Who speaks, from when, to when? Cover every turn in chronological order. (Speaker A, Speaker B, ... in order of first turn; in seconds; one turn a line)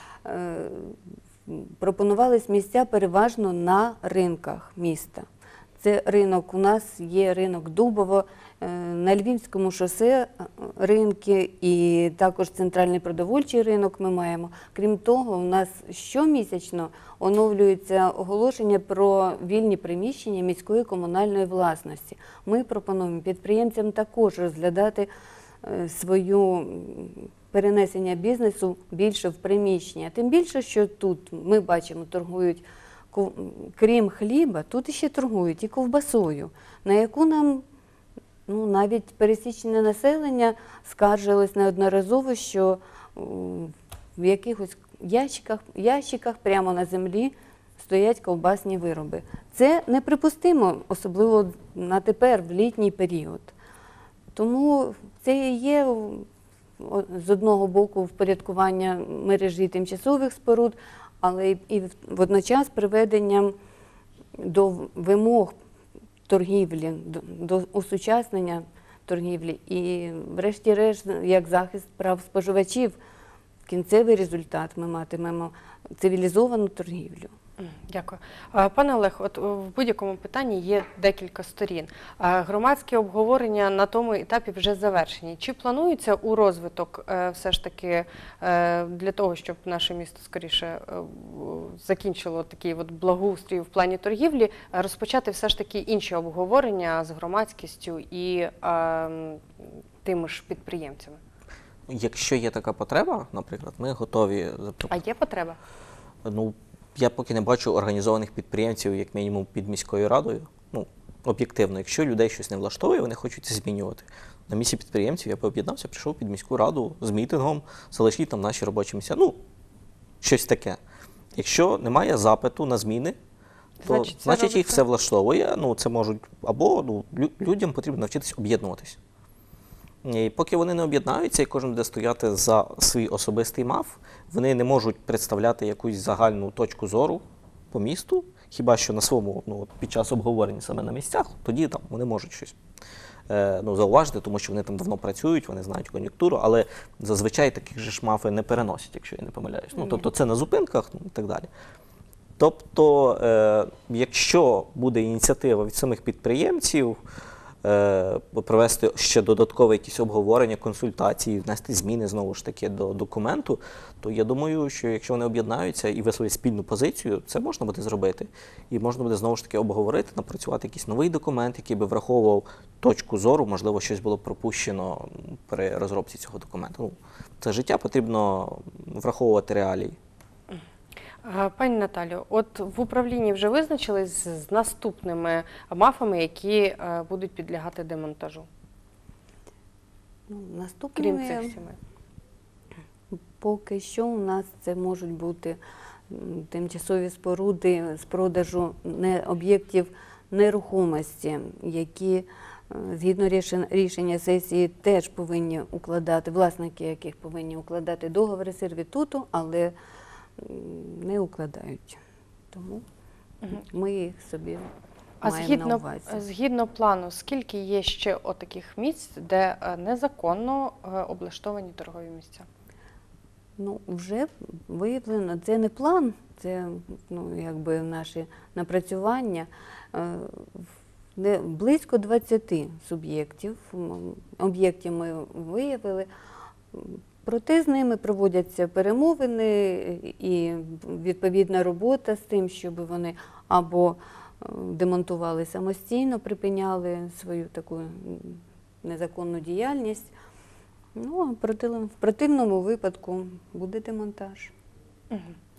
Speaker A: 0.2-5.2
Speaker A: 5.8-25.1
Speaker A: 25.6-37.6
Speaker A: 38.5-53.5
Speaker A: 54.3-56.2
Speaker A: 56.8-63.5
Speaker A: 64.4-65.5
Speaker A: 66.3-73.0
Speaker A: 73.7-77.3
Speaker B: 77.6-99.4
Speaker B: 100.0-101.2
Speaker C: 101.9-104.9
Speaker B: 104.9-105.6
Speaker C: 106.2-119.4
Speaker C: 120.2-120.8
Speaker C: 121.3-123.2
Speaker B: 123.8-124.8
Speaker C: 123.8-129.0
Speaker C: 130.0-142.5
Speaker C: 143.3-151.5
Speaker C: 152.4-157.0
Speaker C: 157.6-180.0
Speaker B: 181.2-188.5
Speaker A: 190.3-191.5
Speaker B: 191.0-191.8
Speaker A: 193.1-209.7
Speaker A: 210.4-212.0
Speaker A: 212.5-212.8
Speaker A: 213.5-214.7
Speaker B: 215.2-222.4
Speaker A: 215.2-216.2
Speaker A: 223.6-236.1
Speaker A: 236.7-250.1
Speaker A: 250.9-254.5